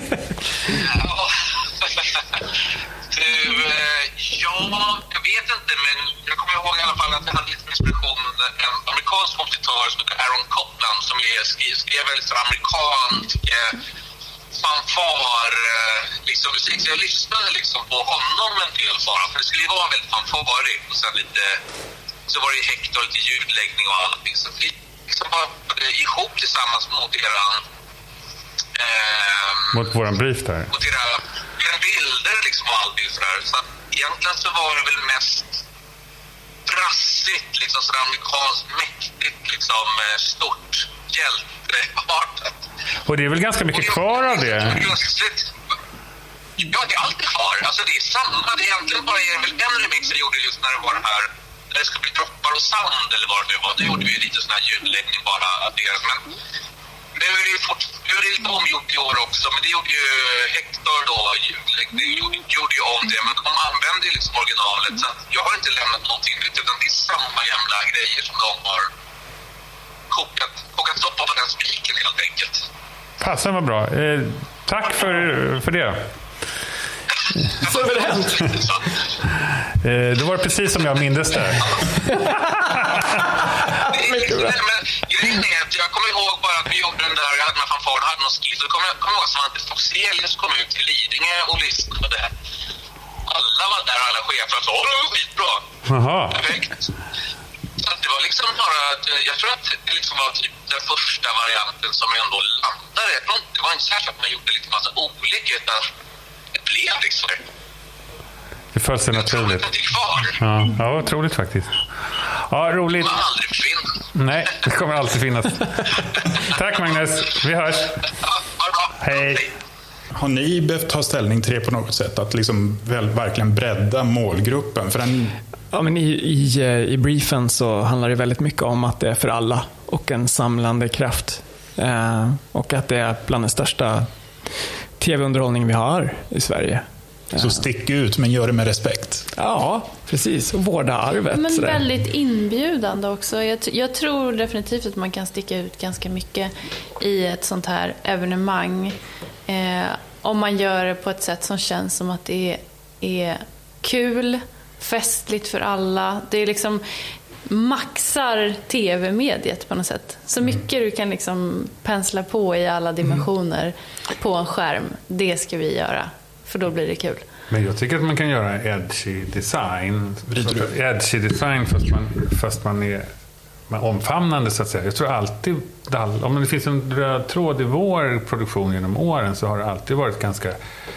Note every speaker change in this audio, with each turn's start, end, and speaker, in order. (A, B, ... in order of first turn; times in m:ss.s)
0:00.7-0:02.4 A
0:03.1-0:13.8 A
0:14.5-0:21.6 A
0:22.3-0:27.6 A
0:28.8-0:29.8 A
0:29.7-0:30.7 B
0:30.7-0:35.6 A
0:36.6-0:42.6 A
0:43.1-0:45.0 B
0:43.7-0:45.5 A
0:46.6-0:56.2 A
0:57.2-1:08.9 A
1:10.1-1:12.7 A
1:13.2-1:16.1 B
1:17.4-1:19.1 A
1:17.6-1:18.6 C
1:19.7-1:23.4 B
1:23.7-1:24.5 C
1:23.8-1:32.3 A
1:33.3-1:35.6 A
1:35.9-1:36.6 B
1:36.3-1:36.9 A
1:37.8-1:45.8 A
1:46.5-1:47.4 A
1:48.7-1:49.7 B
1:49.1-1:50.4 A
1:50.3-1:53.2 B
1:53.0-1:54.0 A
1:54.1-1:58.1 B
1:58.2-1:59.5 A
1:59.0-1:59.4 B
2:00.1-2:05.4 D
2:05.7-2:14.1 C
2:15.0-2:17.6 C
2:17.3-2:19.3 D
2:19.4-2:21.8 C
2:21.3-2:29.0 E
2:29.5-2:36.8 E
2:37.5-2:47.3 E
2:47.5-2:53.1 B
2:50.3-2:50.7 D
2:53.7-3:00.6 B